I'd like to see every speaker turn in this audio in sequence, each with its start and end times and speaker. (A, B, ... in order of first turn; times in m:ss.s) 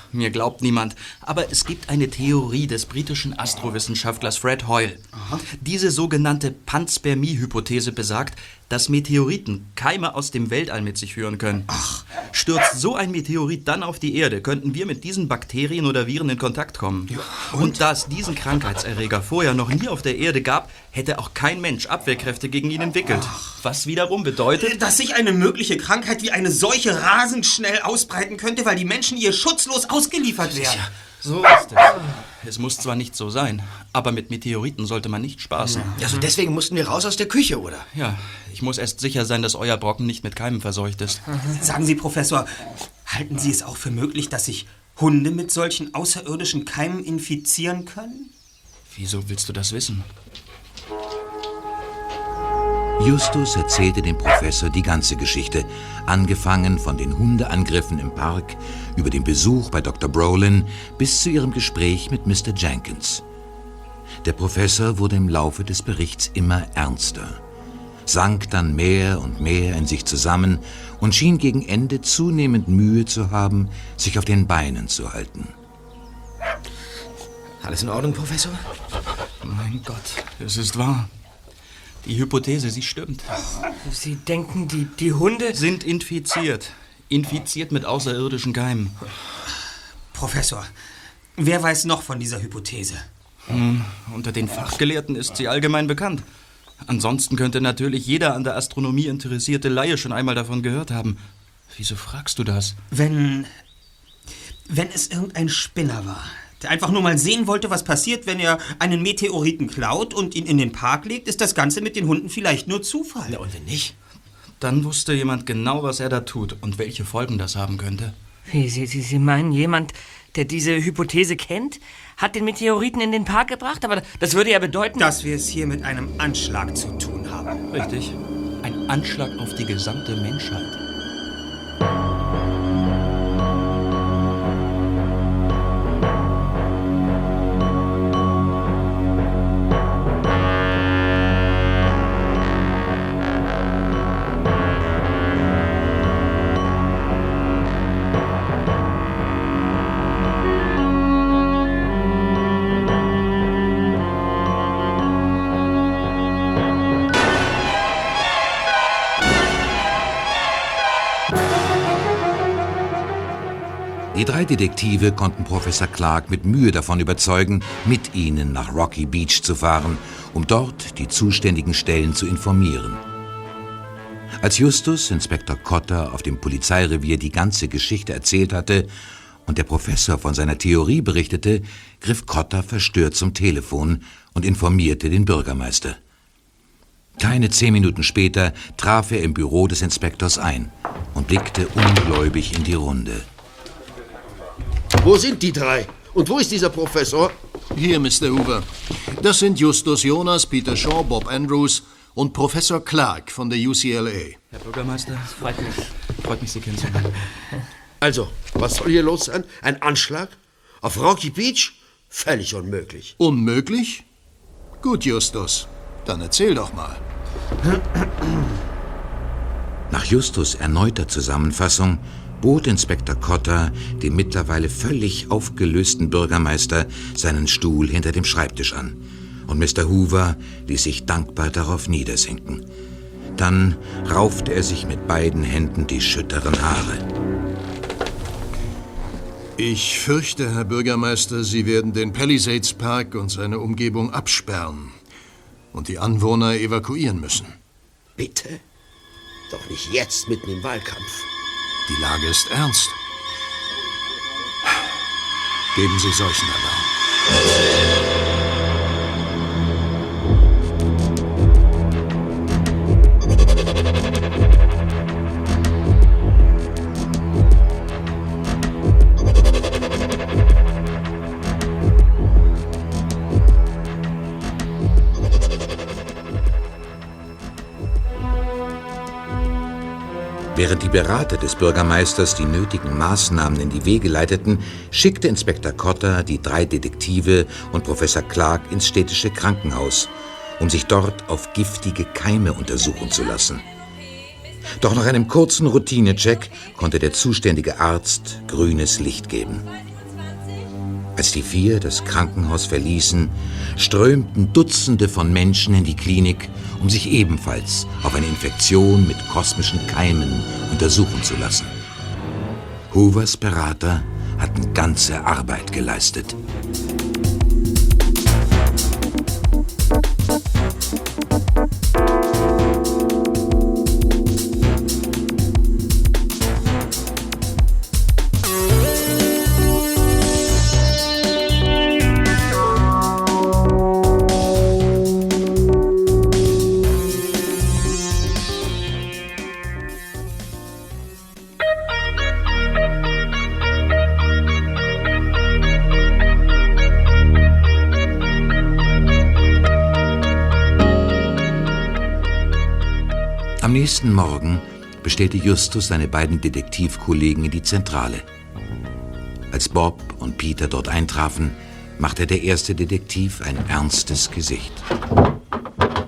0:00.1-0:05.0 A
0:05.1-0:05.4 B
0:05.6-0:11.7 A
0:11.7-0:12.0 B
0:12.2-0:24.8 A
0:17.3-0:17.8 B
0:24.6-0:30.8 B
0:30.5-0:30.9 C
0:31.2-0:36.0 A
0:35.6-0:36.3 B
0:36.0-0:37.9 C
0:37.9-0:41.2 A
0:41.5-0:48.3 B
0:48.9-0:50.1 A
0:53.0-1:03.2 D
1:04.2-1:07.4 D
1:08.1-1:15.5 D
1:17.6-1:18.6 C
1:19.4-1:21.1 A
1:22.0-1:23.3 A
1:23.8-1:25.6 E
1:25.5-1:29.0 A
1:30.1-1:30.7 B
1:31.4-1:33.0 B
1:33.5-1:36.2 A
1:36.8-1:41.2 A
1:41.7-1:42.8 A
1:42.9-1:43.5 B
1:44.7-1:53.4 B
1:53.3-1:53.9 C
1:54.6-1:58.2 A
1:58.5-2:05.1 E
2:05.0-2:07.6 B
2:07.7-2:10.8 A
2:44.1-2:53.0 D
2:54.4-2:58.9 D
2:59.4-3:06.0 D
3:07.2-3:13.3 D
3:15.0-3:17.4 F
3:17.7-3:24.4 G
3:24.5-3:27.2 A
3:25.4-3:25.9 E
3:28.0-3:33.1 F
3:33.2-3:34.0 G
3:34.8-3:37.0 G
3:39.9-3:52.6 D
3:53.4-3:57.1 D
3:59.6-4:04.9 G
4:05.7-4:07.6 G
4:08.2-4:08.6 F
4:09.5-4:11.3 F
4:11.9-4:13.0 G
4:15.7-4:16.9 G
4:40.5-4:53.7 D
4:54.8-4:59.7 D
5:01.2-5:11.7 D
5:12.9-5:16.4 D
5:53.6-5:58.2 D
5:59.5-6:04.8 D